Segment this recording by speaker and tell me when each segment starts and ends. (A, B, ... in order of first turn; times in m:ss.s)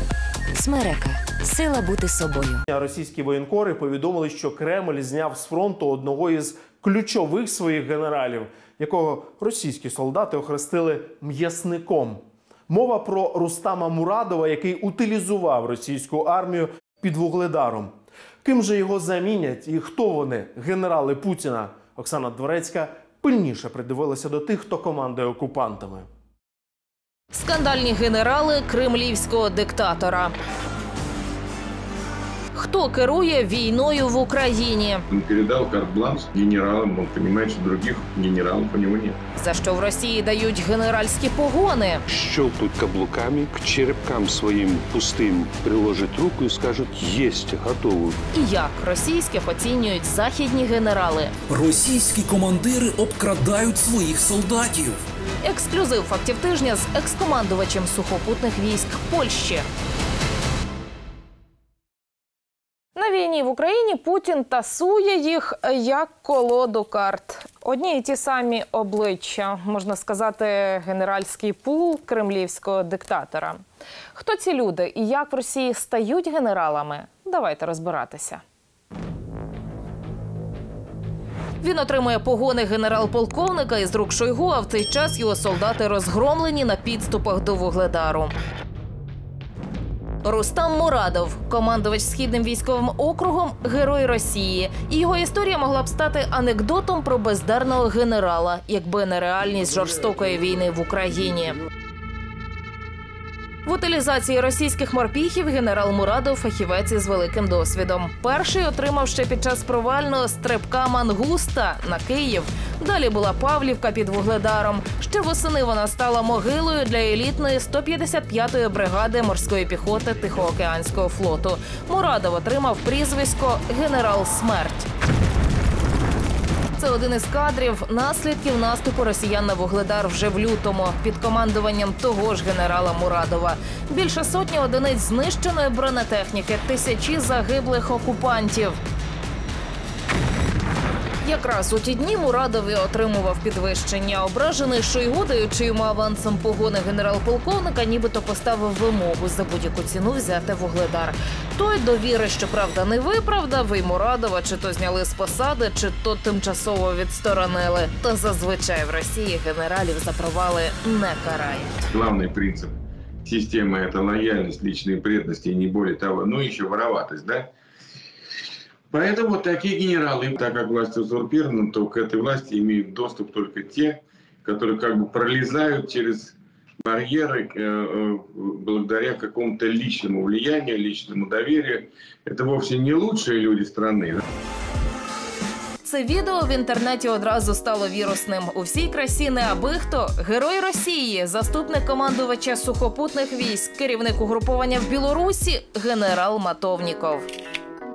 0:00.5-0:02.6 A
0:02.7-0:26.1 B
0:27.3-0:30.4 C
0:32.5-0:35.0 C
0:35.1-0:39.2 D
0:39.4-0:42.0 C
0:42.1-0:48.2 E
0:48.3-0:51.3 C
0:51.5-0:55.0 F
0:55.4-0:59.7 C
1:03.0-1:13.6 C
1:14.1-1:18.4 C
1:21.6-1:28.3 C
1:30.2-1:41.6 C
1:43.6-2:04.9 C
2:06.8-2:18.8 C
2:21.2-2:41.8 C
2:41.9-2:42.7 D
2:43.2-2:47.5 D
2:48.9-3:04.2 D
3:05.8-3:17.3 C